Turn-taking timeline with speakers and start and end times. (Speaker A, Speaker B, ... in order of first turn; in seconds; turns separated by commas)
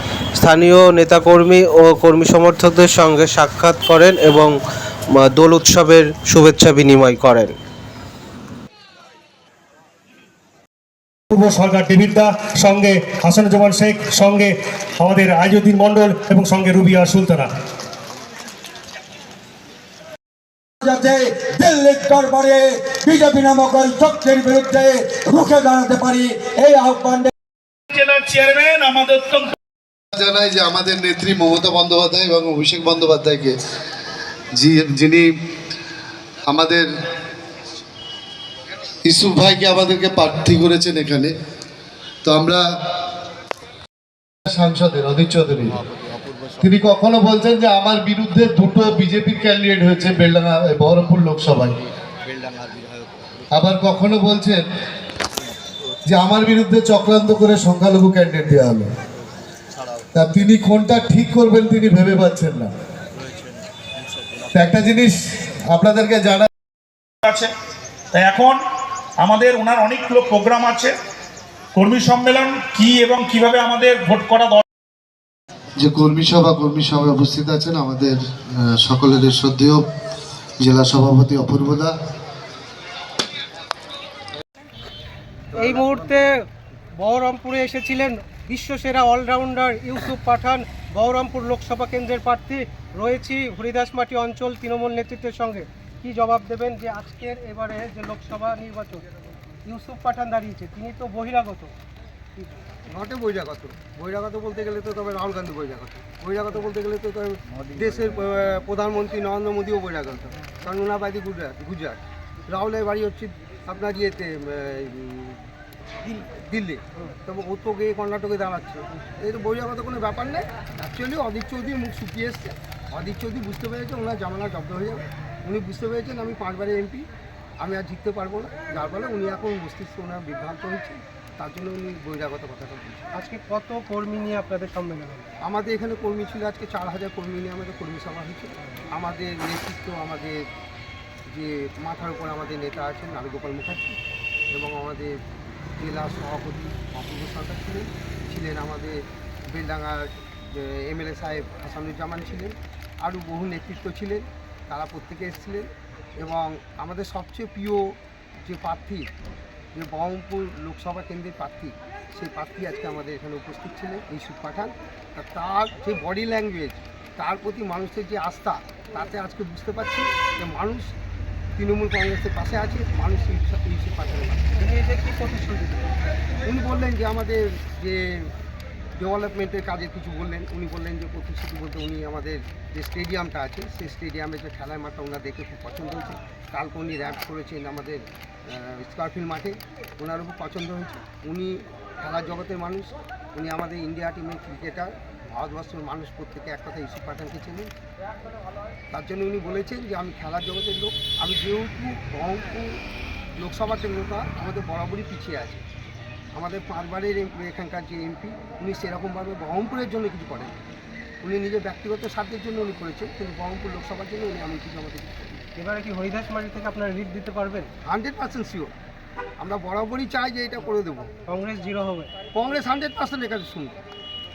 Speaker A: 0.4-4.5, Speaker A: 5.1-7.5, Speaker B: 11.3-17.5, Speaker C: 20.8-27.3, Speaker D: 27.9-29.6, Speaker E: 30.1-33.5, Speaker E: 34.5-35.3, Speaker E: 36.5-36.9, Speaker E: 39.0-41.3, Speaker E: 42.2-42.7, Speaker E: 44.5-45.8, Speaker E: 46.6-51.8, Speaker E: 53.5-54.7, Speaker E: 56.1-58.9, Speaker E: 60.1-62.7, Speaker E: 64.5-66.5, Speaker D: 67.2-67.5, Speaker D: 68.1-68.6, Speaker D: 69.2-70.9, Speaker D: 71.8-74.6, Speaker E: 75.8-79.9, Speaker E: 80.6-81.9, Speaker F: 85.5-86.4, Speaker G: 85.5-85.9, Speaker F: 87.0-99.1, Speaker F: 99.7-101.7, Speaker G: 102.9-115.5, Speaker G: 116.0-127.1, Speaker G: 127.6-133.1, Speaker F: 133.1-135.3, Speaker G: 135.4-140.5, Speaker G: 141.3-144.0, Speaker G: 144.5-145.2, Speaker G: 145.8-159.1, Speaker G: 159.8-170.9, Speaker G: 171.6-174.5, Speaker F: 174.6-175.9, Speaker G: 176.4-178.3, Speaker G: 179.0-197.7, Speaker G: 198.9-202.8, Speaker G: 203.4-205.6, Speaker G: 206.3-210.6, Speaker G: 211.2-215.4, Speaker F: 215.6-217.7, Speaker G: 217.8-218.7, Speaker G: 219.4-221.1, Speaker F: 221.3-222.1, Speaker G: 222.3-223.8